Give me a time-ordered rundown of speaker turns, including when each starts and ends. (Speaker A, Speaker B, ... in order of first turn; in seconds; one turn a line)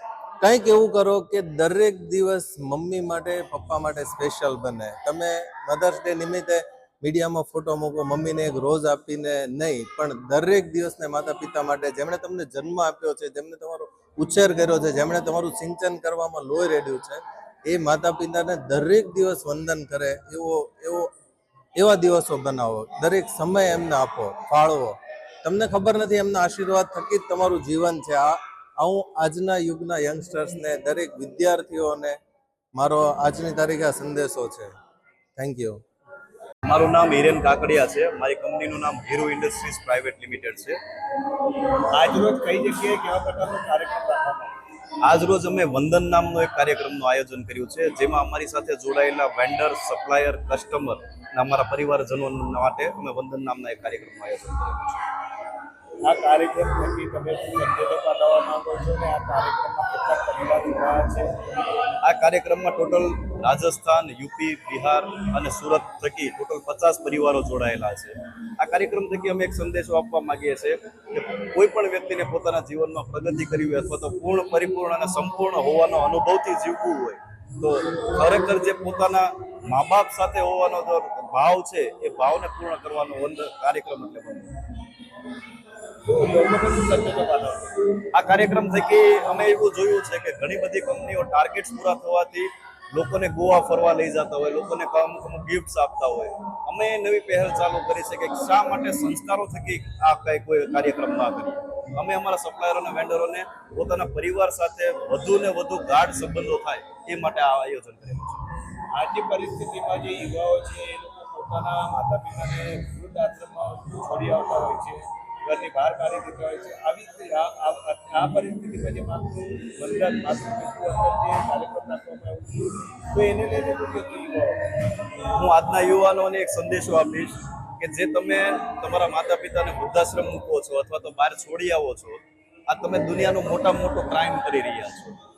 Speaker A: 0.4-21.1
Speaker A: 21.8-32.2
Speaker A: 32.8-34.8
Speaker A: 35.4-35.8
Speaker B: 36.7-40.8
Speaker C: 41.9-44.5
Speaker B: 45.0-55.0
Speaker C: 56.0-61.3
Speaker B: 62.0-84.5
Speaker C: 86.0-87.8
Speaker B: 88.1-108.5
Speaker C: 108.9-124.6
Speaker B: 125.3-135.2